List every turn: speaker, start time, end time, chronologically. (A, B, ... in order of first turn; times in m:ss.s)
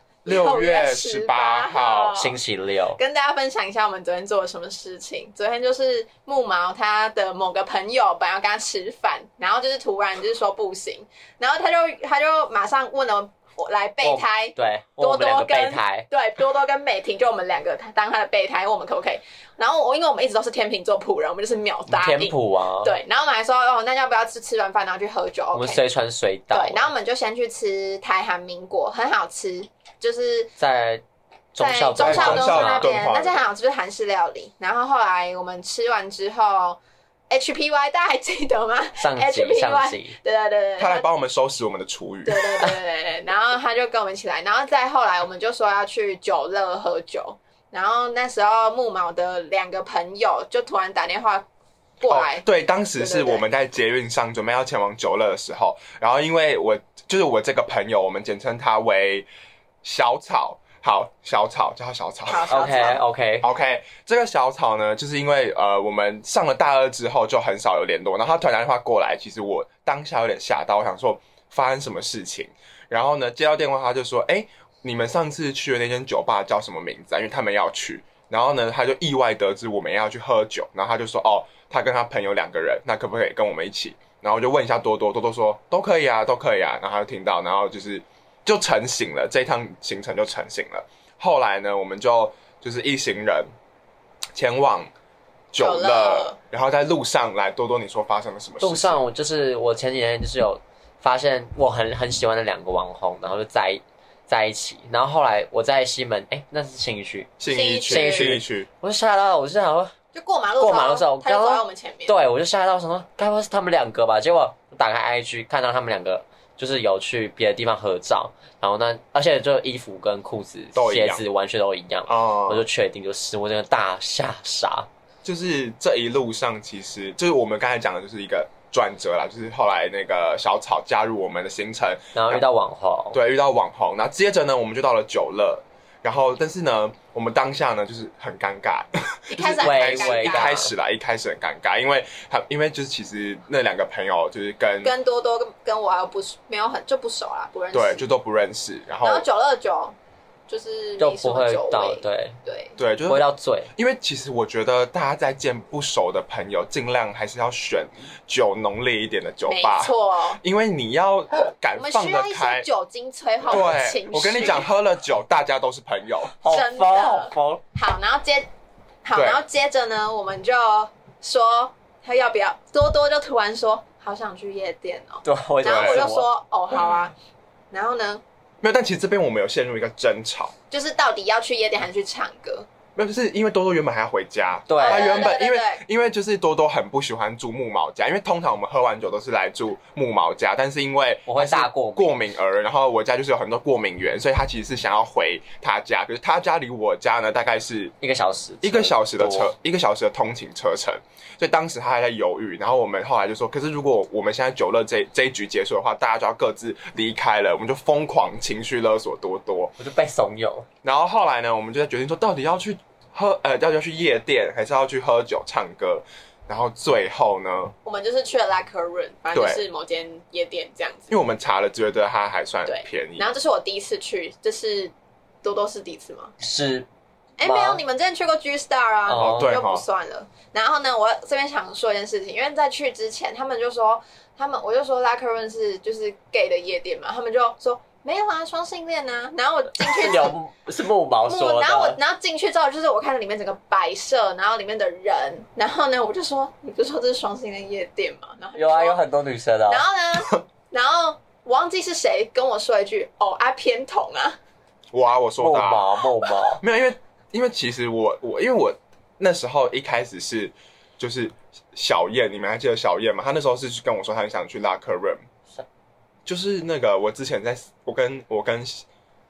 0:00.2-0:02.4 A
0:00.3-0:02.2 B
0:02.2-0:03.0 C
0:03.0-0:25.8 A
0:14.0-0:16.1 C
0:21.9-0:22.9 C
0:25.5-0:26.9 C
0:26.5-0:30.5 A
0:30.6-0:31.0 C
0:31.5-0:32.9 C
0:31.6-0:36.8 A
0:32.0-0:33.4 B
0:37.3-0:41.1 A
0:39.0-0:40.2 C
0:40.8-0:42.7 B
0:42.3-0:51.5 A
0:52.0-0:53.5 A
0:52.1-0:59.3 B
0:59.8-1:02.8 B
1:02.3-1:03.0 A
1:02.5-1:03.5 C
1:03.4-1:33.5 B
1:34.4-1:34.9 B
1:35.5-1:39.0 B
1:35.6-1:36.4 A
1:38.6-1:47.4 C
1:47.4-1:48.7 B
1:47.5-1:48.4 A
1:47.9-1:49.9 C
1:50.1-1:52.2 A
1:50.6-2:04.9 C
2:00.8-2:01.2 B
2:02.1-2:02.7 B
2:05.2-2:12.4 B
2:12.2-2:13.2 C
2:13.1-2:24.9 B
2:19.3-2:20.6 A
2:19.6-2:20.7 C
2:24.8-2:28.0 A
2:27.7-2:29.2 B
2:29.0-2:30.0 A
2:30.5-2:32.8 A
2:31.0-2:32.4 C
2:32.8-2:42.7 B
2:33.1-2:33.7 C
2:39.5-2:40.4 A
2:41.8-2:44.7 A
2:43.5-2:46.4 B
2:46.4-2:47.6 C
2:46.5-2:48.5 A
2:49.0-2:57.2 A
2:49.2-2:49.4 B
2:55.2-2:56.3 C
2:55.6-2:56.1 B
2:57.7-2:58.2 A
2:58.6-3:00.5 B
3:00.7-3:02.7 A
3:03.0-3:18.0 B
3:04.7-3:05.3 C
3:04.8-3:05.8 A
3:11.3-3:12.2 C
3:18.0-3:19.5 C
3:18.6-3:29.7 B
3:29.8-3:30.7 C
3:30.8-3:37.7 B
3:37.8-3:41.2 A
3:39.3-3:39.6 B
3:41.1-3:43.3 B
3:42.7-3:46.3 A
3:46.4-3:46.9 C
3:47.4-4:00.4 A
3:47.4-3:47.8 C
3:49.1-3:49.5 C
3:49.2-3:49.8 B
3:59.8-4:02.0 C
4:01.3-4:09.0 A
4:08.6-4:09.8 C
4:09.7-4:14.4 A
4:14.9-4:15.9 B
4:15.4-4:16.6 C
4:16.6-4:25.2 B
4:26.3-4:28.8 B